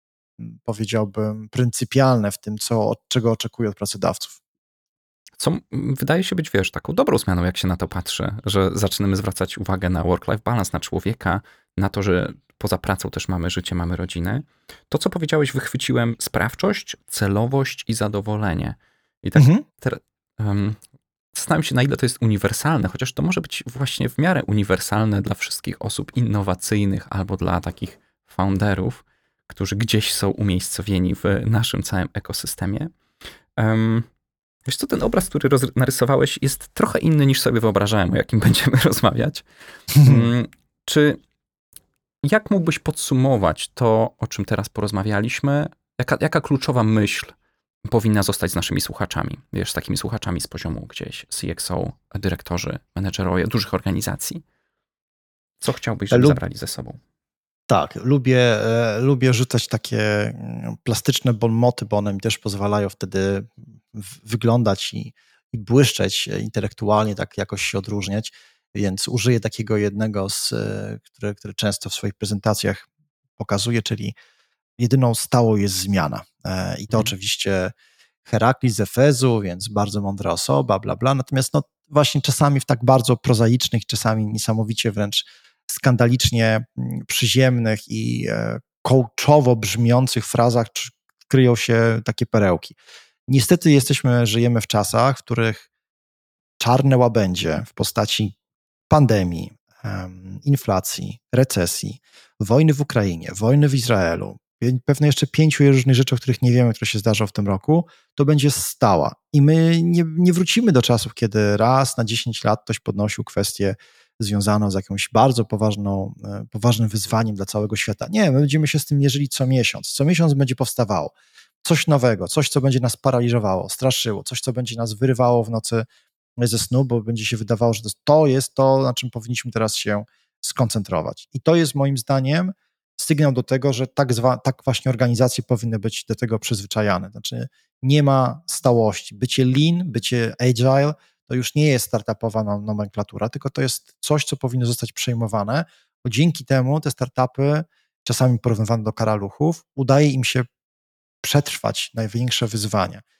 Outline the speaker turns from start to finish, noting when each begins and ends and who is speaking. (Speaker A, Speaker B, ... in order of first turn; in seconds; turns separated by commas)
Speaker A: 0.4-4.4, Speaker B: 5.4-20.8, Speaker A: 19.4-19.6, Speaker B: 21.3-32.9, Speaker B: 33.5-34.1, Speaker B: 34.6-39.4, Speaker A: 39.9-40.2, Speaker B: 40.0-41.2, Speaker B: 42.2-47.3, Speaker B: 47.9-54.4, Speaker B: 55.6-57.0, Speaker A: 56.1-56.4, Speaker A: 57.7-74.1, Speaker A: 74.8-77.7, Speaker A: 78.2-95.7, Speaker A: 96.6-98.3, Speaker A: 98.9-125.8, Speaker A: 126.4-150.5, Speaker A: 151.2-153.0